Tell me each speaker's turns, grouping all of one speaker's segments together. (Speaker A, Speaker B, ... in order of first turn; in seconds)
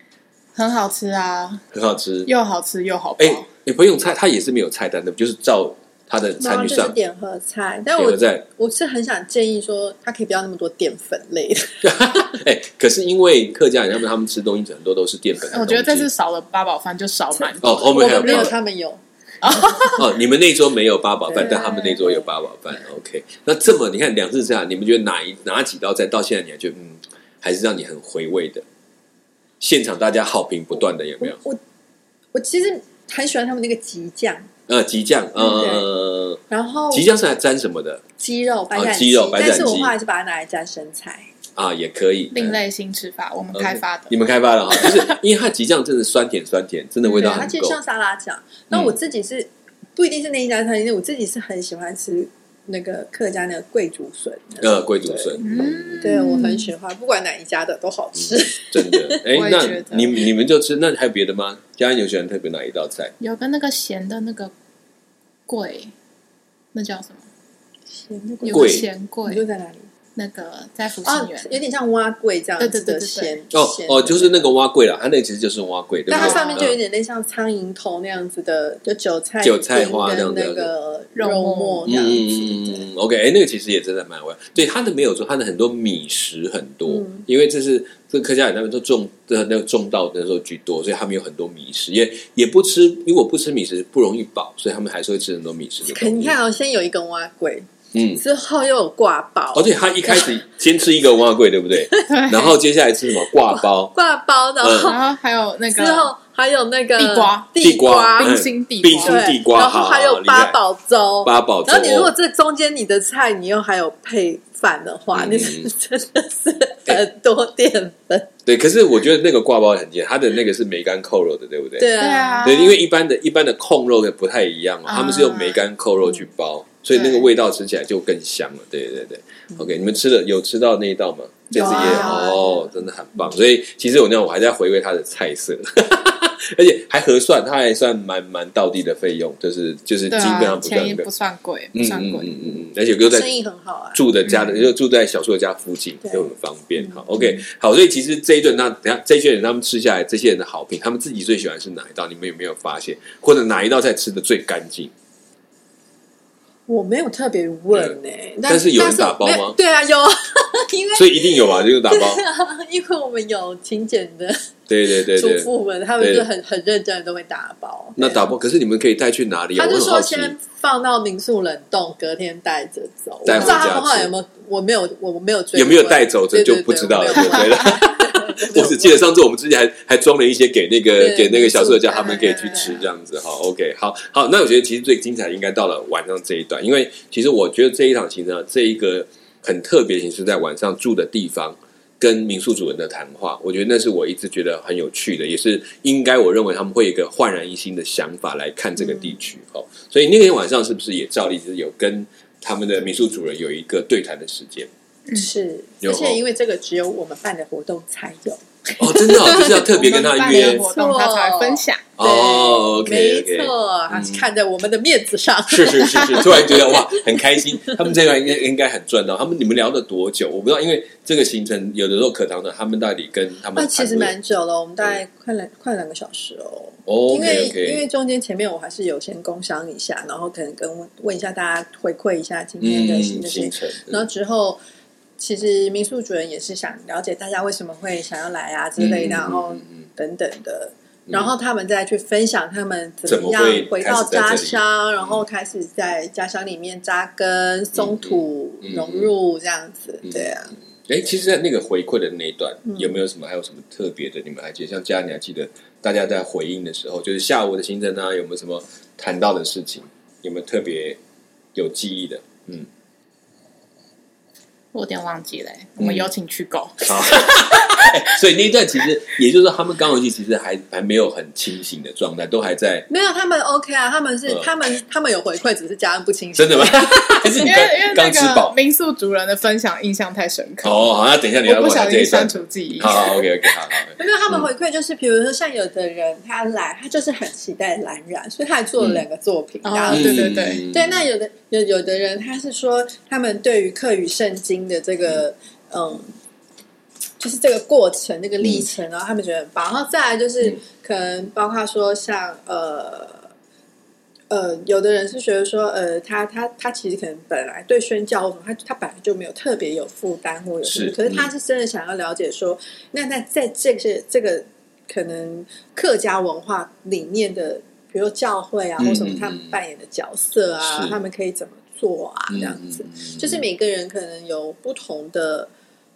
Speaker A: 0.6-1.6, 2.3-3.5, 15.5-18.5, 19.4-20.0, 42.3-44.2, 55.4-56.7, 59.3-60.3, 63.2-64.5, 65.5-65.9, 66.7-67.3, 68.4-69.4, 70.2-71.6, 72.6-73.4, 76.1-76.6, 81.2-82.0, 102.1-102.6, 104.8-106.1, 107.0-107.5, 108.2-109.3, 122.0-122.8, 124.9-125.6, 131.5-132.4, 140.1-142.3, 181.9-182.8, 209.3-211.8, 264.7-268.2, 277.4-280.9, 281.4-283.1, 289.6-290.7
Speaker B: 1.7-2.3, 3.2-7.0, 8.0-8.4, 11.8-16.1, 17.6-18.5, 20.0-28.6, 29.6-31.4, 34.7-38.0, 38.7-39.9, 41.6-42.6, 43.5-47.8, 54.6-56.2, 58.2-63.1, 68.5-68.9, 73.5-76.8, 79.4-80.7, 81.9-96.3, 97.9-98.2, 99.5-103.9, 104.6-104.9, 107.6-110.6, 111.2-112.1, 115.1-115.7, 118.5-121.9, 122.4-141.1, 141.7-143.3, 143.9-154.9, 157.7-159.6, 160.9-162.2, 164.7-166.3, 168.0-170.3, 173.2-174.1, 175.5-204.7, 205.8-206.2, 208.8-210.7, 212.0-214.3, 215.5-224.2, 226.9-227.8, 232.6-234.0, 238.8-239.8, 243.1-244.6, 247.8-249.1, 250.1-250.3, 250.8-261.0, 261.6-262.7, 265.8-266.1, 266.9-272.9, 276.4-278.6, 280.6-284.5, 289.9-291.1, 310.6-311.3, 318.8-319.6, 320.6-321.0, 322.3-323.4
Speaker C: 6.4-12.0, 17.3-19.9, 21.3-22.3, 31.2-31.6, 32.3-34.5, 35.4-35.9, 36.5-37.1, 38.2-41.3, 47.1-59.2, 67.9-69.9, 71.0-74.5, 76.1-82.8, 86.9-87.2, 95.9-100.3, 103.3-105.0, 105.7-108.4, 109.0-118.3, 121.8-122.7, 131.6-132.7, 143.1-144.0, 156.7-168.3, 169.6-179.1, 181.0-182.8, 205.1-209.8, 210.3-217.2, 223.6-234.6, 235.2-250.6, 252.7-253.0, 272.9-277.5, 284.0-296.1, 297.2-303.3, 304.3-325.5